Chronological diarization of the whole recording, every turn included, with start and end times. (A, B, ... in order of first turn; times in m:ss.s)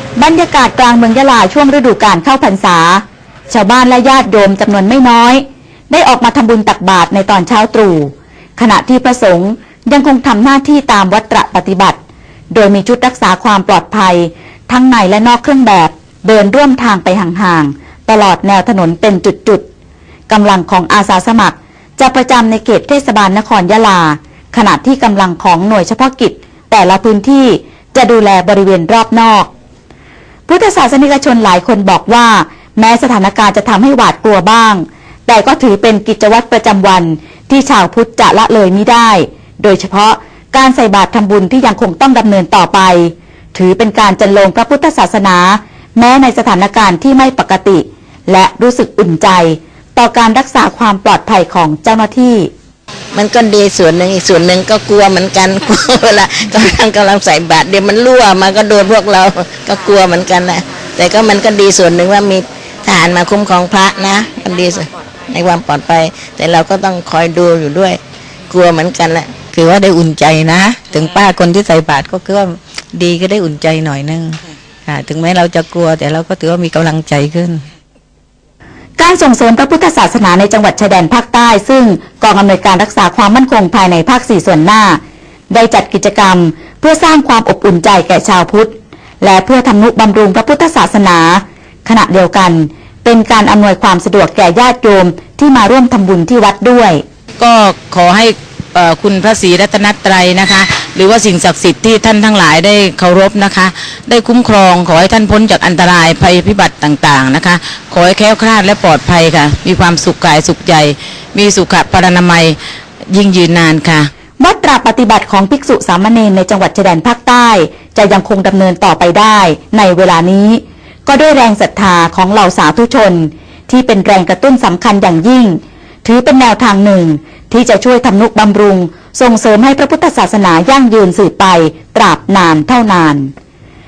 0:00.2-0:12.0 A
0:12.5-0:19.6 A
0:20.3-0:29.5 A
0:30.5-0:52.5 A
0:53.1-1:09.4 B
1:09.4-1:17.6 C
1:19.0-1:25.0 A
1:25.5-1:37.0 A
1:37.4-1:52.6 D
1:53.1-1:54.1 D
1:54.4-2:13.3 A